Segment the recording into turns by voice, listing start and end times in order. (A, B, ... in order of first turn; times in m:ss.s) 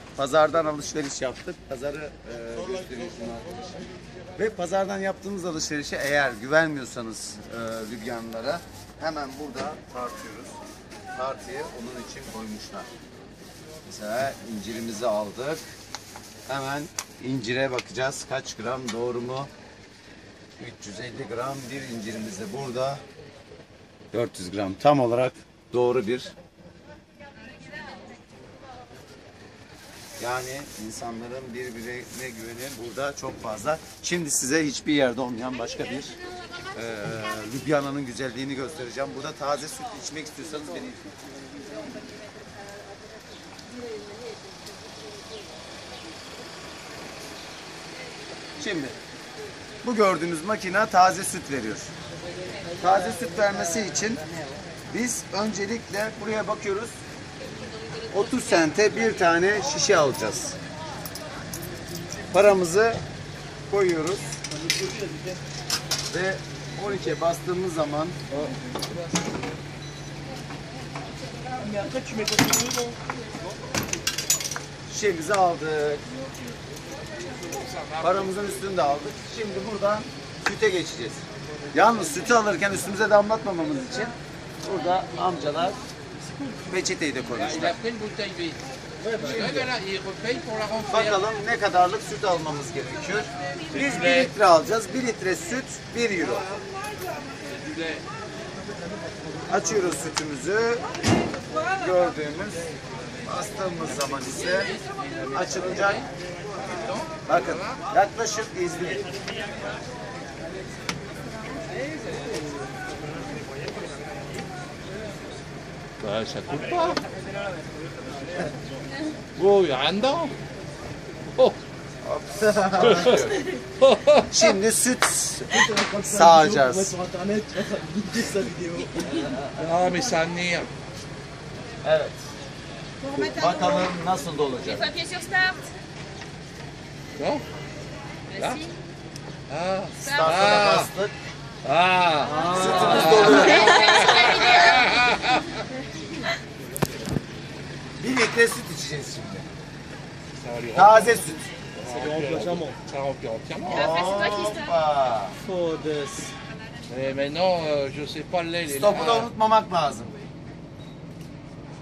0:00.2-0:03.8 A
0:04.4-0:10.6 A
0:11.1-0:12.9 A
0:13.8-0:15.6 A
0:16.5-0:19.5 A
0:20.6-0:23.0 A
0:24.1-0:26.3 A
0:30.2-0:36.2 A
0:36.7-0:41.1 A
0:48.6-0:49.0 A
0:49.8-0:51.9 A
0:52.8-0:54.2 A
0:54.9-0:57.0 A
0:58.1-1:00.6 A
1:02.3-1:03.0 A
1:03.7-1:04.3 A
1:04.5-1:05.4 B
1:06.1-1:08.2 A
1:11.6-1:13.0 B
1:14.9-1:16.1 A
1:18.0-1:25.8 A
1:26.7-1:27.7 A
1:27.4-1:28.6 C
1:29.2-1:29.6 A
1:29.2-1:31.2 C
1:30.9-1:36.5 A
1:33.7-1:34.3 C
1:37.6-1:38.0 C
1:39.5-1:40.8 A
1:41.8-1:42.7 A
1:43.2-1:44.7 A
1:44.4-1:46.1 C
1:45.3-1:46.0 A
1:46.7-1:47.8 C
1:47.3-1:49.0 A
1:56.0-1:57.0 C
1:59.4-2:00.4 C
2:02.0-2:03.4 A
2:02.8-2:04.5 C
2:04.3-2:06.9 A
2:05.5-2:09.3 B
2:09.5-2:10.7 C
2:11.8-2:12.2 A
2:13.2-2:15.0 A
2:14.7-2:15.7 D
2:17.2-2:17.4 C
2:18.3-2:18.8 D
2:18.4-2:18.6 C
2:19.5-2:20.9 C
2:20.0-2:21.2 A
2:21.6-2:25.4 C
2:22.2-2:23.6 B
2:22.5-2:24.0 A
2:23.4-2:25.0 D
2:28.0-2:29.5 A
2:30.3-2:34.0 C
2:30.7-2:31.5 A
2:31.8-2:32.8 B
2:33.7-2:35.4 A
2:33.7-2:34.7 D
2:35.4-2:36.3 B
2:36.9-2:39.3 C
2:38.7-2:40.1 A